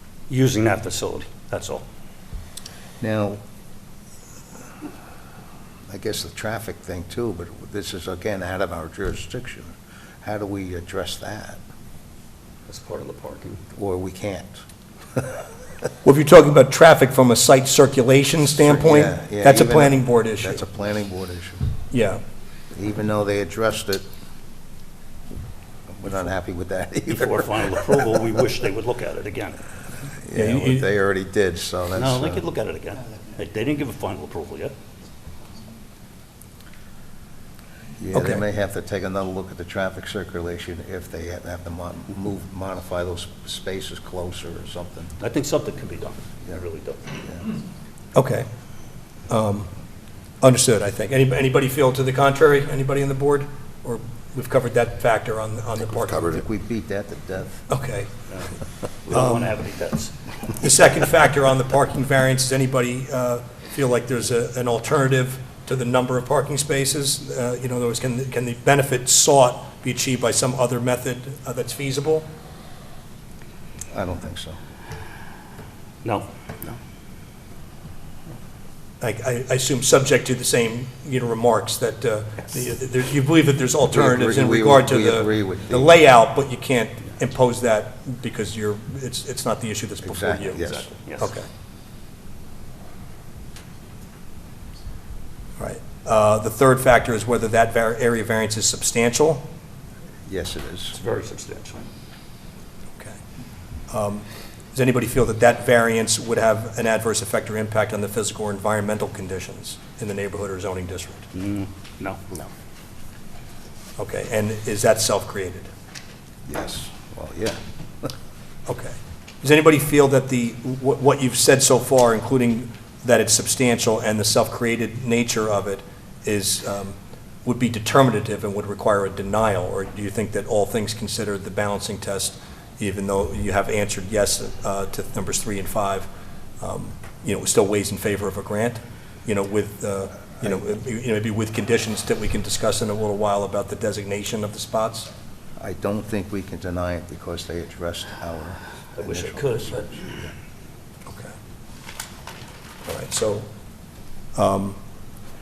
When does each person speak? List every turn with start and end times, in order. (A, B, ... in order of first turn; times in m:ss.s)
0:00.3-0:01.8 A
0:03.0-0:03.4 B
0:05.9-0:11.6 B
0:12.7-0:13.6 A
0:13.7-0:14.6 B
0:16.0-0:20.6 C
0:18.6-0:21.7 B
0:21.9-0:22.2 C
0:22.7-0:24.0 B
0:25.9-0:28.1 B
0:27.1-0:29.6 A
0:30.2-0:32.4 B
0:30.3-0:30.9 C
0:31.9-0:34.7 A
0:38.0-0:45.1 B
0:38.1-0:38.4 C
0:45.2-0:47.1 A
0:47.2-0:47.5 B
0:48.1-0:48.5 C
0:49.3-0:49.7 C
0:50.4-0:56.4 C
0:56.3-0:57.6 B
0:57.7-0:58.2 C
0:58.3-1:00.1 A
0:59.1-0:59.5 C
1:00.6-1:12.3 C
1:13.9-1:14.6 B
1:16.0-1:16.8 A
1:19.0-1:31.5 C
1:23.8-1:26.0 B
1:30.0-1:30.9 B
1:31.0-1:31.3 A
1:35.6-1:39.4 C
1:40.2-1:41.0 B
1:40.9-1:41.9 A
1:43.9-1:51.3 C
1:51.3-1:52.2 A
1:54.0-1:55.7 C
1:56.5-1:58.1 B
1:58.7-2:16.1 C
2:16.6-2:25.1 C
2:25.6-2:30.3 B
2:29.0-2:29.9 A
2:31.1-2:31.3 C
2:32.8-2:33.5 C
2:34.3-2:34.8 C